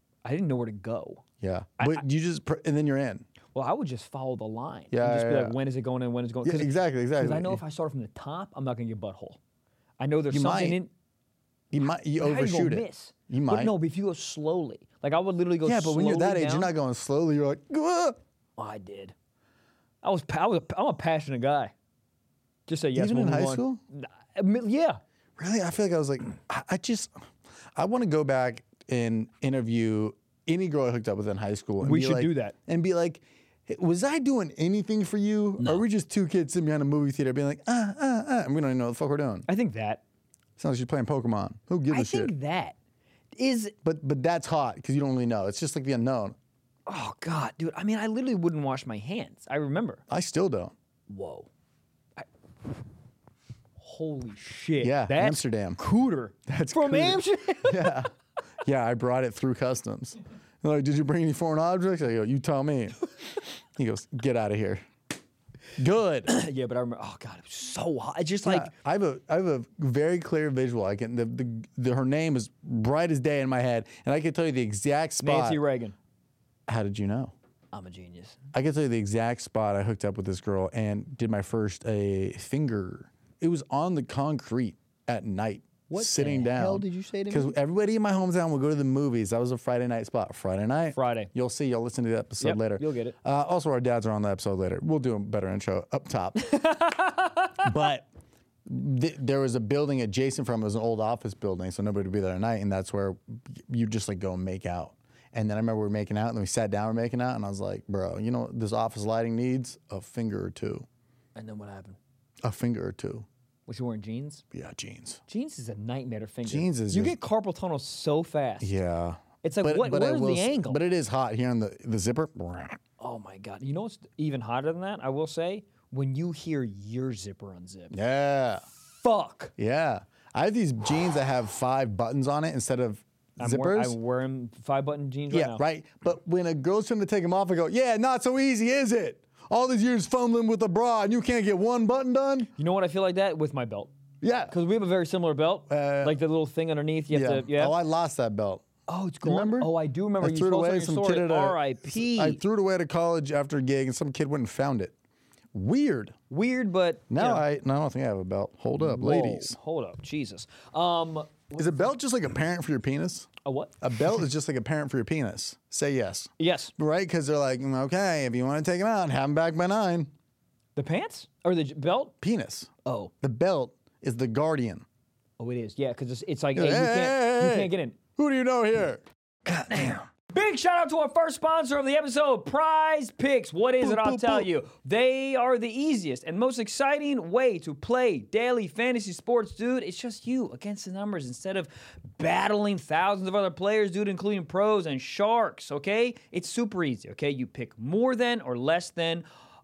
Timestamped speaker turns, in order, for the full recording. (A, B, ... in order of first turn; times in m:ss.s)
0:00.2-0:01.2 A
0:01.4-0:03.2 B
0:03.5-0:09.4 A
0:04.9-0:05.6 B
0:06.4-0:07.6 B
0:10.0-0:10.9 A
0:10.3-0:10.8 B
0:11.7-0:13.7 B
0:12.2-0:16.7 A
0:15.6-0:18.2 B
0:18.6-0:19.1 A
0:20.0-0:21.7 A
0:22.7-0:25.0 A
0:22.9-0:23.8 B
0:25.4-0:27.2 B
0:27.7-0:39.5 B
0:31.8-0:32.5 A
0:39.5-0:40.0 A
0:40.6-0:42.3 B
0:41.9-0:42.8 A
0:43.3-0:43.7 A
0:43.8-0:46.4 B
0:46.9-0:50.0 A
0:50.1-0:50.7 B
0:51.1-0:51.5 A
0:53.8-0:58.0 A
0:54.8-0:55.8 B
0:56.5-0:58.1 B
0:58.6-1:03.0 B
1:03.8-1:04.8 B
1:05.8-1:06.3 B
1:06.3-1:08.7 A
1:08.4-1:15.6 B
1:15.2-1:15.9 A
1:16.7-1:17.3 B
1:17.7-1:18.4 A
1:18.5-1:36.4 B
1:25.9-1:27.5 A
1:30.9-1:31.3 A
1:32.4-1:33.2 A
1:36.4-1:37.6 A
1:37.6-1:38.1 B
1:38.6-1:50.8 B
1:51.4-1:52.0 A
1:52.4-1:53.3 B
1:53.7-1:54.4 A
1:54.5-1:55.2 B
1:55.3-1:58.7 A
1:56.4-1:57.2 B
1:58.6-2:02.8 B
1:59.4-2:00.8 A
2:03.0-2:08.0 A
2:07.9-2:08.6 B
2:09.0-2:09.5 A
2:09.6-2:14.0 B
2:13.4-2:15.6 A
2:15.3-2:22.5 B
2:22.6-2:23.9 A
2:24.2-2:24.5 B
2:24.5-2:27.7 A
2:25.7-2:26.2 B
2:27.1-2:28.6 B
2:28.9-2:32.4 A
2:29.2-2:34.9 B
2:35.5-2:36.2 B
2:36.3-2:37.4 A
2:37.1-2:39.6 B
2:38.8-2:41.8 A
2:41.6-2:43.3 B
2:43.4-2:43.7 A
2:43.8-2:50.1 B
2:46.4-2:46.7 A
2:50.8-2:52.1 A
2:52.2-2:52.7 B
2:52.8-2:53.1 A
2:53.2-2:54.8 B
2:55.4-2:58.0 A
2:56.5-3:00.0 B
3:00.3-3:19.2 A
3:03.8-3:04.5 B